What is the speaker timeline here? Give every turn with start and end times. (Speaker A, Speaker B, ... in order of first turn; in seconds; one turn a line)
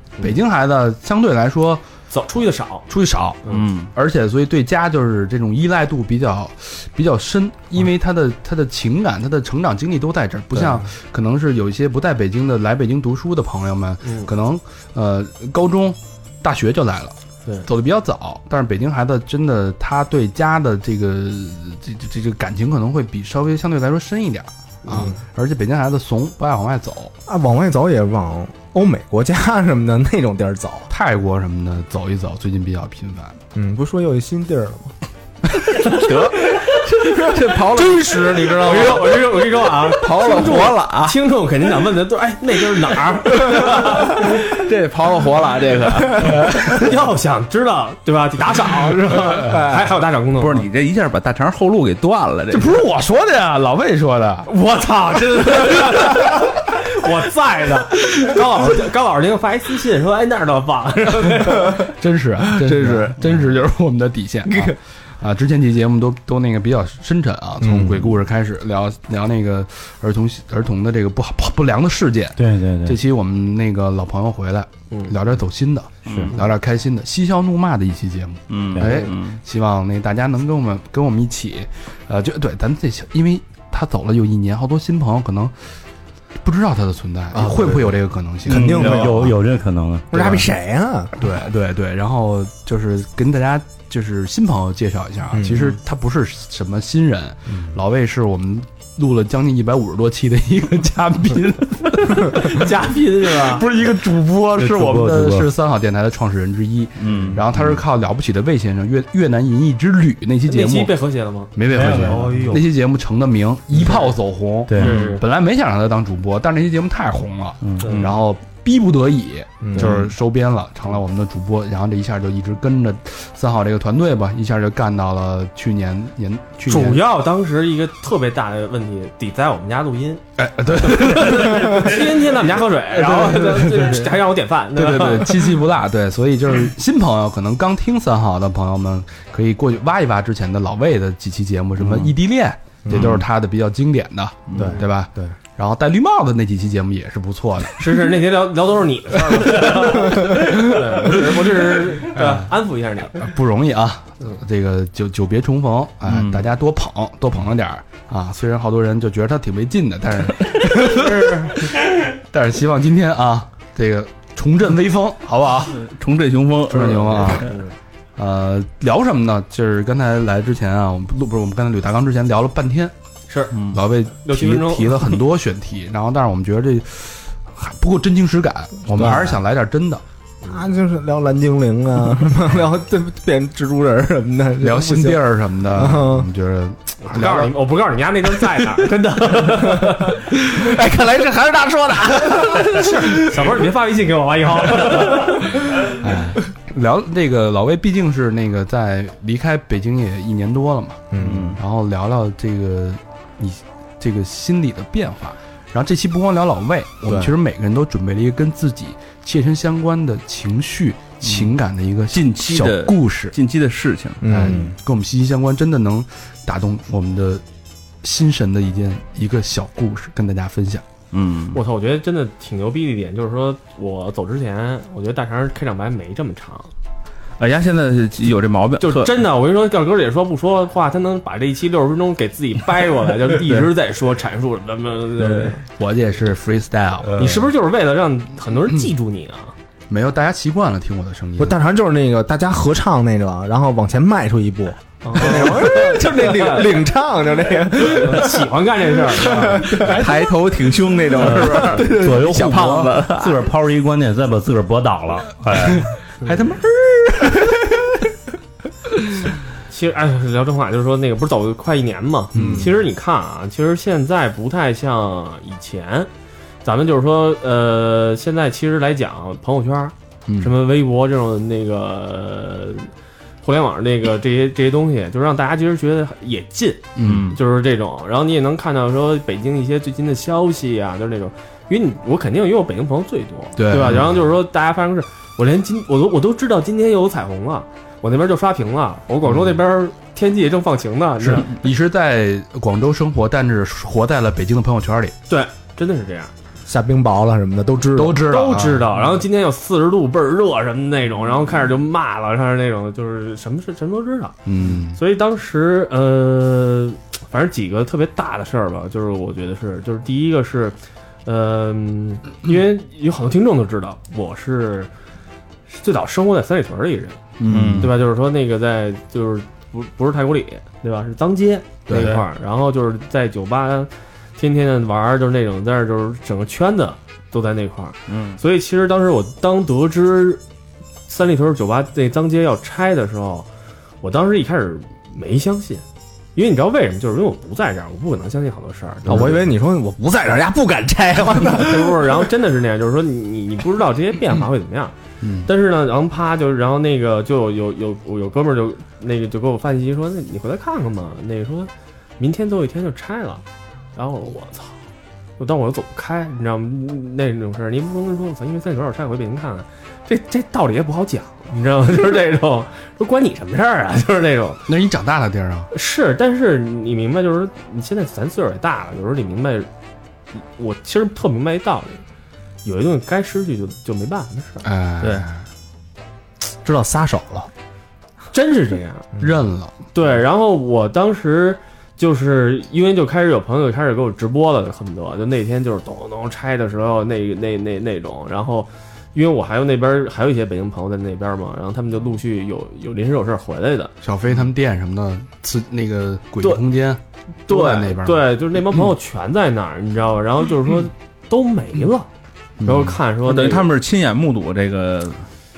Speaker A: 0.2-1.8
Speaker B: 2.1-2.9
Speaker A: 2.9-27.1
Speaker C: 3.5-3.9
Speaker B: 10.6-10.9
Speaker B: 14.0-14.3
Speaker B: 24.9-25.2
Speaker D: 27.3-30.9
Speaker A: 30.9-33.4
Speaker D: 33.5-34.9
Speaker C: 35.8-39.1
Speaker D: 37.0-39.0
Speaker B: 38.6-44.4
Speaker C: 40.0-41.1
Speaker D: 40.2-40.6
Speaker C: 43.5-46.3
Speaker A: 46.2-46.8
Speaker B: 46.5-50.6
Speaker C: 50.4-52.8
Speaker A: 52.6-54.5
Speaker B: 54.5-61.9
Speaker A: 61.7-85.5
Speaker C: 62.6-63.0
Speaker D: 67.6-68.1
Speaker E: 72.4-73.0
Speaker C: 76.1-76.3
Speaker C: 78.5-79.4
Speaker E: 78.8-79.0
Speaker A: 86.4-89.1
Speaker D: 87.3-89.4
Speaker E: 88.5-90.4
Speaker D: 90.1-91.2
Speaker A: 91.2-111.0
Speaker D: 95.3-95.6
Speaker D: 97.5-97.8
Speaker B: 102.3-103.7
Speaker E: 104.6-105.5
Speaker C: 107.0-107.4
Speaker E: 107.2-107.5
Speaker B: 110.5-112.7
Speaker A: 111.5-127.0
Speaker E: 111.7-112.6
Speaker E: 114.7-115.0
Speaker B: 114.8-115.2
Speaker E: 117.6-117.9
Speaker B: 117.8-118.1
Speaker C: 117.8-118.1
Speaker D: 119.6-120.0
Speaker B: 119.7-120.0
Speaker B: 126.7-130.2
Speaker A: 130.4-134.2
Speaker B: 130.8-135.5
Speaker A: 134.8-148.0
Speaker C: 141.8-142.1
Speaker D: 142.8-143.2
Speaker C: 142.9-143.2
Speaker D: 144.6-145.4
Speaker B: 147.8-153.2
Speaker A: 149.4-152.6
Speaker A: 153.1-165.8
Speaker C: 156.1-156.5
Speaker B: 160.7-161.7
Speaker C: 165.7-167.5
Speaker A: 166.7-167.6
Speaker B: 167.1-167.7
Speaker A: 168.2-172.9
Speaker B: 173.3-175.2
Speaker C: 173.6-173.8
Speaker A: 173.7-180.0
Speaker D: 178.9-179.4
Speaker D: 180.4-186.3
Speaker A: 184.6-187.6
Speaker B: 187.0-190.3
Speaker D: 189.6-193.6
Speaker B: 192.7-195.6
Speaker D: 194.8-195.1
Speaker A: 195.9-213.3
Speaker D: 201.1-201.6
Speaker C: 201.2-201.5
Speaker D: 207.0-207.3
Speaker C: 211.2-211.5
Speaker C: 212.1-214.2
Speaker D: 214.2-214.8
Speaker A: 214.3-217.4
Speaker A: 218.0-220.8
Speaker C: 221.1-221.6
Speaker B: 221.5-226.7
Speaker C: 227.4-229.1
Speaker B: 228.8-235.6
Speaker A: 235.8-237.5
Speaker B: 237.2-239.5
Speaker A: 239.9-241.6
Speaker D: 241.4-248.5
Speaker B: 245.0-246.8
Speaker B: 247.8-249.9
Speaker D: 249.1-250.1
Speaker C: 249.6-253.4
Speaker D: 251.2-253.0
Speaker E: 251.2-255.9
Speaker A: 256.2-257.6
Speaker B: 259.7-266.1
Speaker D: 262.3-262.6
Speaker A: 262.3-262.7
Speaker B: 266.6-272.9
Speaker A: 270.3-270.5
Speaker B: 273.4-291.5
Speaker A: 277.0-277.4
Speaker C: 277.0-277.4
Speaker A: 283.6-284.3
Speaker A: 291.2-295.1
Speaker B: 295.3-296.3
Speaker D: 296.7-298.3
Speaker A: 297.9-299.0
Speaker B: 298.3-304.4
Speaker A: 304.5-305.0
Speaker B: 304.9-314.9
Speaker B: 315.7-317.2
Speaker C: 317.4-317.9
Speaker A: 317.4-318.0
Speaker B: 317.8-330.4
Speaker A: 321.9-322.2
Speaker C: 321.9-322.2
Speaker C: 328.1-328.4
Speaker B: 331.1-333.5
Speaker B: 334.0-335.8
Speaker B: 336.4-339.5
Speaker D: 339.1-342.2
Speaker B: 341.4-344.9
Speaker A: 345.2-345.5
Speaker B: 345.4-353.4
Speaker B: 354.0-354.8
Speaker B: 355.4-364.6
Speaker A: 364.7-365.7
Speaker B: 365.7-369.7
Speaker B: 370.3-372.0
Speaker B: 372.6-374.7
Speaker A: 374.6-375.4
Speaker C: 375.0-375.3
Speaker D: 376.6-377.5
Speaker B: 378.3-379.1
Speaker A: 379.2-379.8
Speaker B: 379.9-393.9
Speaker A: 394.0-398.3
Speaker B: 397.5-402.1
Speaker A: 402.6-403.0
Speaker B: 402.6-403.7
Speaker C: 403.2-405.2